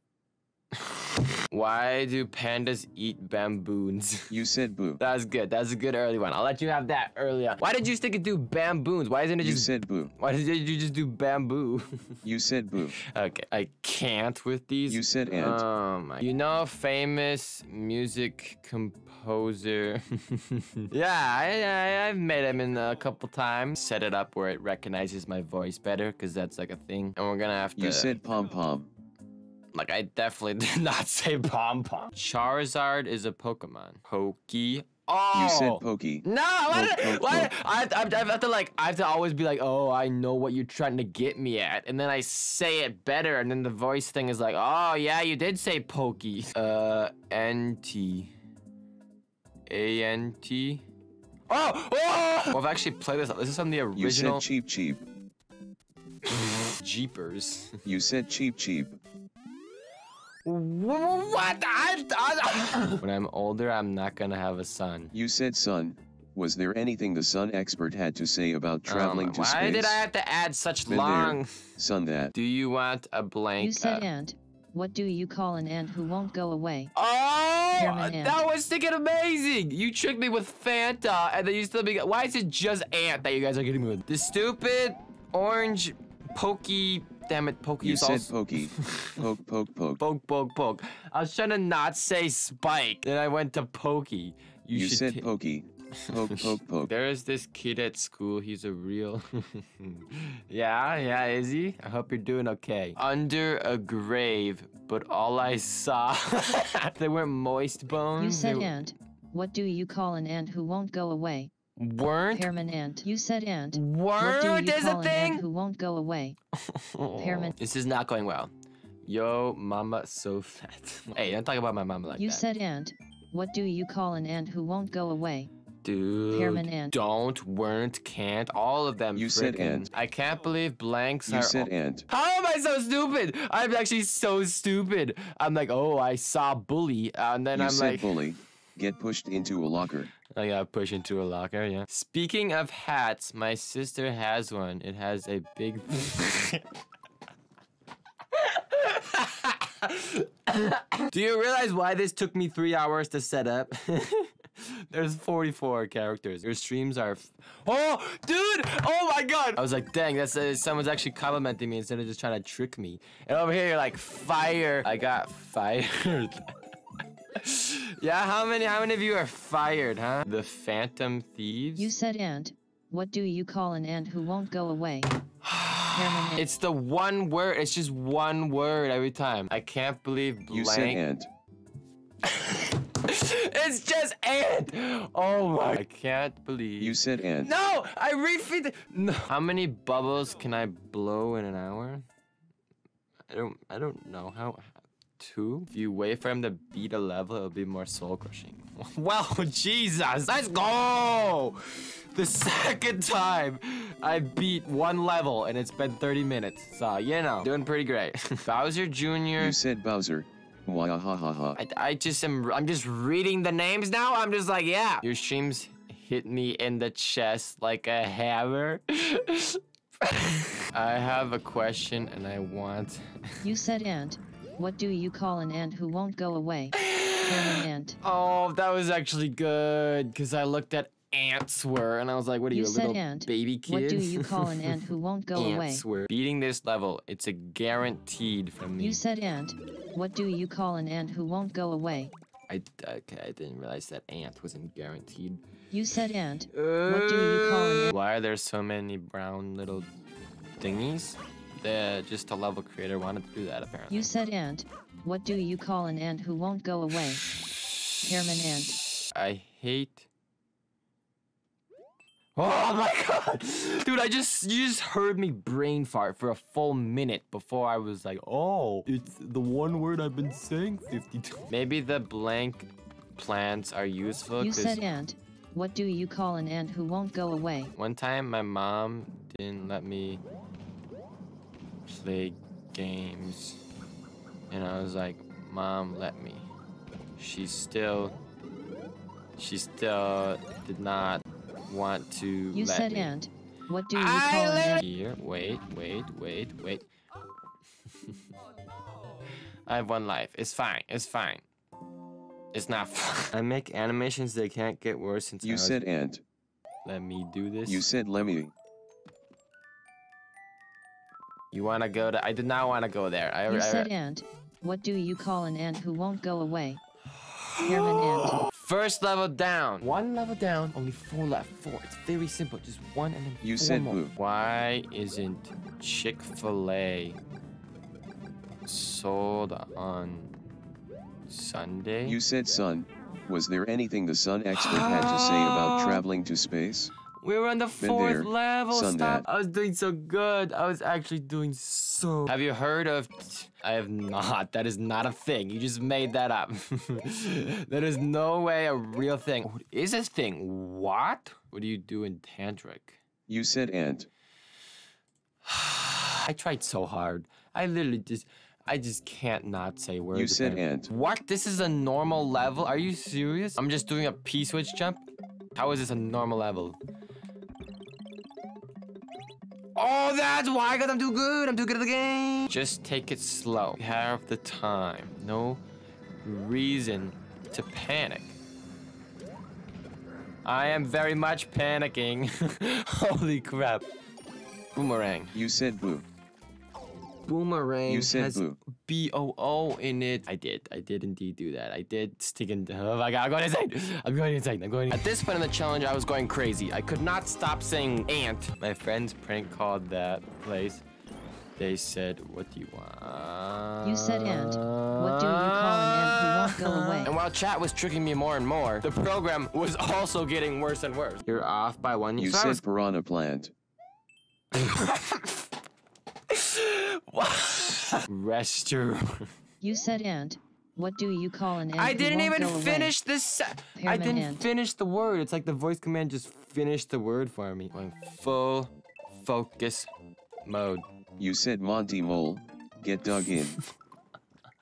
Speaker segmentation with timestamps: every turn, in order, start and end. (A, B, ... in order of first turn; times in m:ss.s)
0:00.8-0:04.3 A
0:04.3-0:05.0 B
0:05.0-0:11.9 A
0:09.4-0:10.1 B
0:12.2-0:12.9 B
0:13.1-0:28.2 A
0:14.9-0:15.6 B
0:27.8-0:28.9 B
0:29.7-0:48.3 A
0:35.3-0:37.5 B
0:49.7-0:50.8 A
0:51.5-0:54.4 A
0:54.0-0:55.0 B
0:56.2-0:57.8 A
0:57.8-0:59.0 B
1:00.4-1:05.1 A
1:05.1-1:10.0 B
1:08.8-1:11.7 A
1:10.9-1:12.3 B
1:12.3-1:14.1 A
1:13.6-1:16.9 C
1:16.9-1:29.2 A
1:17.8-1:18.4 C
1:27.8-1:30.0 B
1:30.0-1:35.2 A
1:34.7-1:36.9 B
1:36.1-1:48.7 A
1:48.2-1:51.5 C
1:51.8-1:52.5 A
1:52.3-1:56.4 C
1:53.7-1:55.4 A
1:56.7-1:58.5 A
1:57.2-1:57.6 C
1:59.0-2:02.4 A
2:02.2-2:05.5 C
2:05.8-2:18.2 A
2:06.3-2:06.9 C
2:09.1-2:09.9 B
2:11.3-2:12.0 B
2:17.5-2:20.1 B
2:20.3-2:26.6 A
2:28.3-2:46.5 A
2:47.3-2:51.9 A
2:51.8-2:55.1 C
2:55.4-3:01.0 A
2:55.9-2:56.4 C
3:00.5-3:01.3 B
3:02.2-3:12.0 A
3:06.8-3:07.5 B
3:13.3-3:29.6 A
3:29.4-3:31.6 B
3:31.6-3:43.2 A
3:43.4-3:48.0 C
3:46.7-3:54.8 A
3:52.5-3:55.8 C
3:55.3-3:59.0 A
3:58.8-4:02.1 C
4:02.5-4:05.4 A
4:05.7-4:07.9 C
4:06.5-4:09.9 A
4:10.6-4:14.1 A
4:13.9-4:17.2 C
4:18.0-4:18.8 C
4:19.1-4:20.1 A
4:22.4-4:34.8 A
4:34.4-4:37.7 C
4:37.8-4:40.2 A
4:41.9-4:43.6 A
4:44.5-4:46.4 A
4:47.2-4:48.1 A
4:49.4-4:53.1 A
4:52.5-4:54.8 C
4:53.9-4:56.8 A
4:59.7-5:01.4 A
5:02.5-5:05.8 A
5:05.4-5:06.2 B
5:06.8-5:07.8 A
5:07.6-5:08.5 B
5:11.5-5:13.9 A
5:13.5-5:16.8 C
5:17.3-5:27.2 A
5:17.6-5:18.4 C
5:23.4-5:24.1 B
5:28.6-5:30.3 A
5:31.3-5:32.2 A
5:32.0-5:36.9 B
5:34.5-5:36.0 A
5:37.2-5:53.0 A
5:37.8-5:39.2 B
5:53.3-5:54.1 B
5:55.4-6:05.0 A
6:00.1-6:00.9 B
6:05.5-6:06.8 A
6:09.8-6:15.6 A
6:16.2-6:18.4 A
6:20.4-6:23.9 A
6:24.7-6:25.3 A
6:25.3-6:26.0 B
6:27.3-6:40.8 A
6:27.8-6:28.6 B
6:41.6-6:52.6 A
6:43.8-6:47.1 C
6:52.2-6:53.5 B
6:54.5-6:55.4 A
6:56.3-6:59.3 A
6:59.6-7:02.9 C
7:01.7-7:09.9 A
7:03.8-7:04.4 C
7:10.4-7:10.8 A
7:11.2-7:13.6 B